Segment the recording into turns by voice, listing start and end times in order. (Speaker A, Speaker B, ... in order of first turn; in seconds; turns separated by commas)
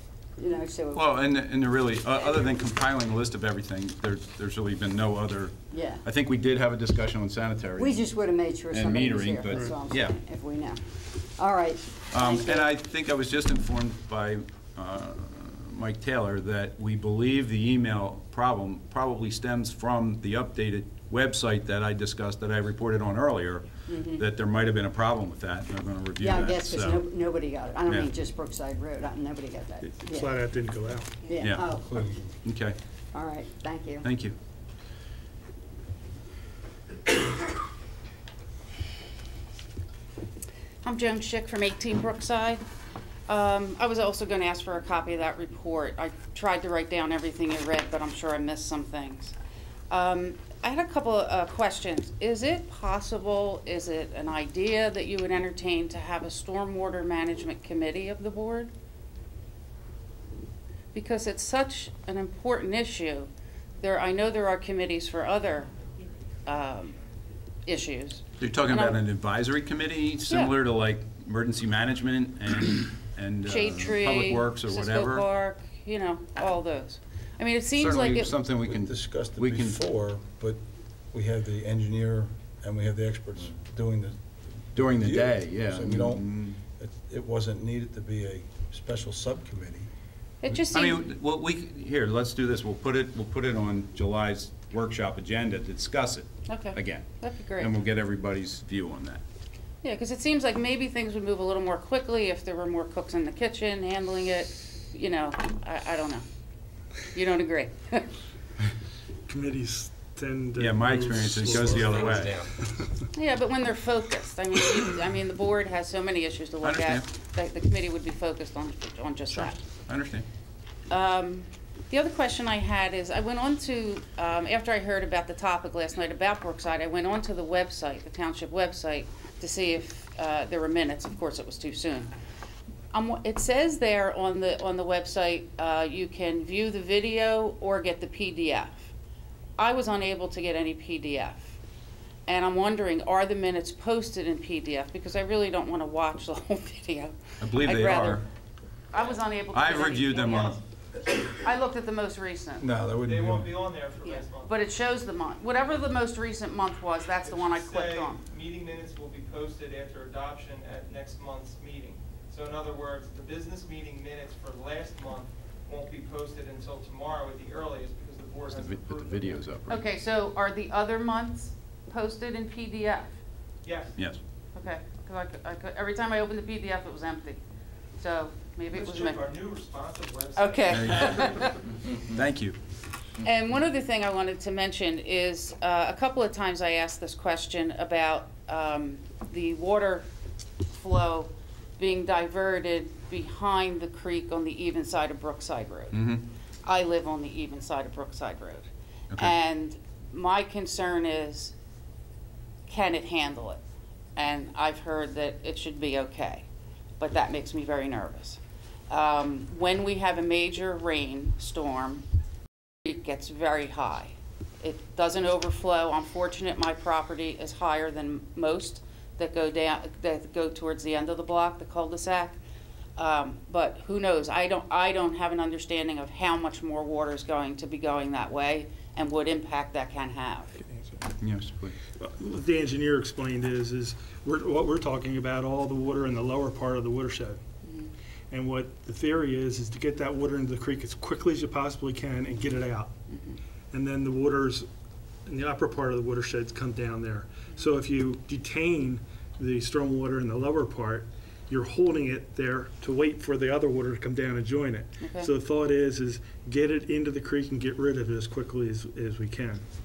Speaker A: 0.4-1.0, Speaker B: 0.9-8.0, Speaker A: 5.7-6.0, Speaker A: 7.8-10.8, Speaker B: 8.7-10.2, Speaker A: 11.3-12.7, Speaker B: 12.1-27.0, Speaker A: 23.9-24.2, Speaker A: 26.2-30.4, Speaker C: 29.8-31.1, Speaker A: 31.2-31.9, Speaker B: 31.4-31.7, Speaker D: 31.8-32.3, Speaker B: 32.4-32.8, Speaker A: 33.1-34.1, Speaker B: 34.0-34.4, Speaker E: 40.8-42.6, Speaker E: 43.3-49.3, Speaker E: 49.9-58.7, Speaker E: 60.9-63.3, Speaker E: 63.8-65.7, Speaker E: 66.5-67.0, Speaker E: 67.6-69.0, Speaker B: 68.4-75.2, Speaker E: 70.3-70.5, Speaker E: 73.5-78.3, Speaker B: 77.8-79.8, Speaker D: 78.6-80.6, Speaker D: 81.1-84.2, Speaker B: 84.7-86.6, Speaker D: 84.8-86.2, Speaker D: 86.8-89.9, Speaker E: 90.4-91.0, Speaker B: 90.7-99.2, Speaker E: 96.5-97.7, Speaker E: 99.8-106.2, Speaker E: 107.1-108.1, Speaker C: 109.3-113.1, Speaker B: 110.6-112.4, Speaker E: 113.1-119.6, Speaker B: 116.6-117.0, Speaker B: 119.3-120.2, Speaker E: 120.9-132.1, Speaker E: 132.9-138.9, Speaker E: 139.6-141.5, Speaker E: 142.3-148.2, Speaker B: 147.4-148.2, Speaker E: 148.9-150.6, Speaker B: 149.5-150.6, Speaker E: 151.3-152.7, Speaker D: 152.6-153.5, Speaker F: 153.0-154.5, Speaker E: 154.0-158.2, Speaker F: 157.2-169.4, Speaker B: 168.4-169.8, Speaker E: 169.7-173.1, Speaker F: 173.6-173.9, Speaker B: 173.9-174.2, Speaker E: 174.5-177.4, Speaker E: 178.0-179.3, Speaker F: 178.7-181.6, Speaker E: 180.3-181.6, Speaker B: 180.7-181.1, Speaker B: 182.1-182.6, Speaker E: 183.2-190.1, Speaker E: 190.7-196.0, Speaker B: 195.9-196.2, Speaker E: 196.6-201.5, Speaker E: 202.7-203.6, Speaker E: 204.2-206.4, Speaker E: 207.0-212.1, Speaker E: 212.8-222.4, Speaker E: 223.0-230.6, Speaker C: 230.7-231.1, Speaker B: 231.2-231.7, Speaker C: 231.9-237.4, Speaker E: 237.6-237.9, Speaker C: 238.3-242.9, Speaker E: 243.1-243.4, Speaker C: 243.7-244.7, Speaker C: 245.2-259.6, Speaker E: 255.0-255.3